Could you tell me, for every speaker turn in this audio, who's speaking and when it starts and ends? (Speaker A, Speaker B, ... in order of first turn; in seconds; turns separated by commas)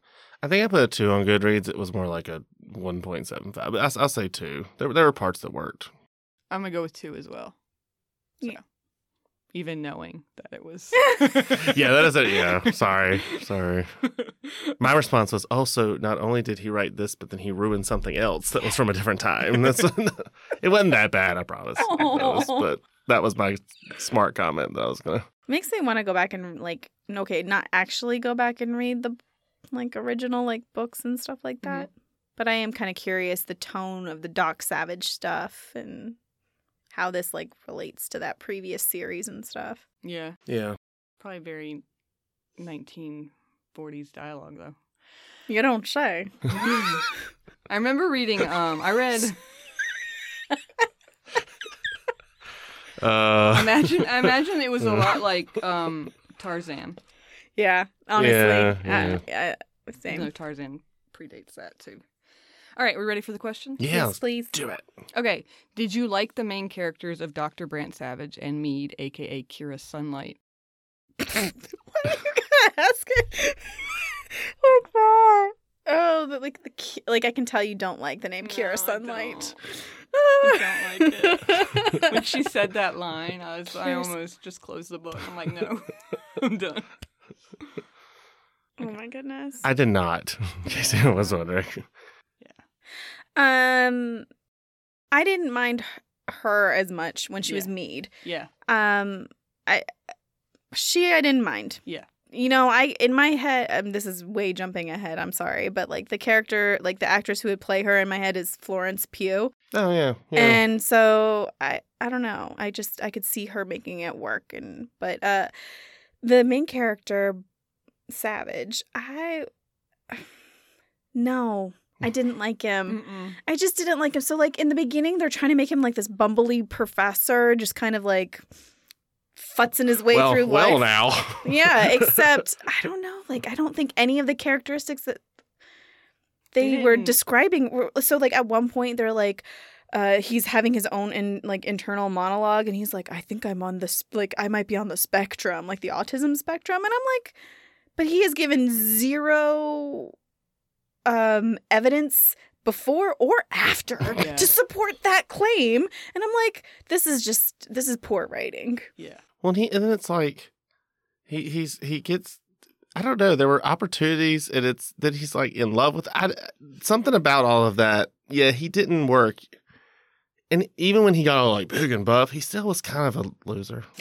Speaker A: 0.4-5.9, Speaker B: 6.5-7.5, Speaker B: 9.5-13.2, Speaker A: 11.5-13.9, Speaker B: 14.2-14.8, Speaker A: 14.8-25.3, Speaker C: 21.8-22.7, Speaker C: 25.5-29.2, Speaker C: 29.7-36.2, Speaker C: 36.9-39.8, Speaker B: 40.0-40.4, Speaker A: 40.5-40.8, Speaker B: 41.2-41.8, Speaker B: 42.6-44.8, Speaker C: 45.5-46.9, Speaker B: 46.6-47.0, Speaker B: 47.7-49.4, Speaker A: 53.0-55.2, Speaker B: 53.5-57.0, Speaker C: 57.6-60.3, Speaker A: 58.2-59.2, Speaker B: 60.1-62.0, Speaker B: 62.8-63.9, Speaker A: 63.8-64.8, Speaker C: 63.9-64.5, Speaker B: 65.1-70.4, Speaker C: 71.2-82.2, Speaker B: 78.4-79.6, Speaker B: 80.4-86.9, Speaker C: 83.8-84.1, Speaker C: 88.8-89.7, Speaker A: 89.6-91.9, Speaker B: 90.8-91.3, Speaker C: 93.4-94.3, Speaker C: 95.1-98.1, Speaker B: 98.2-98.5, Speaker C: 98.7-99.9, Speaker C: 100.7-109.5, Speaker A: 109.7-110.6, Speaker C: 110.3-115.5, Speaker C: 116.2-117.4, Speaker C: 118.1-119.5, Speaker C: 121.2-128.4, Speaker B: 122.9-123.4, Speaker C: 129.4-135.2, Speaker A: 130.1-132.4, Speaker C: 136.5-147.4, Speaker B: 136.6-137.2, Speaker C: 148.0-150.1, Speaker C: 151.1-158.9, Speaker B: 154.2-154.5, Speaker A: 159.4-160.5, Speaker A: 161.3-162.4, Speaker A: 163.0-169.5, Speaker A: 170.5-173.9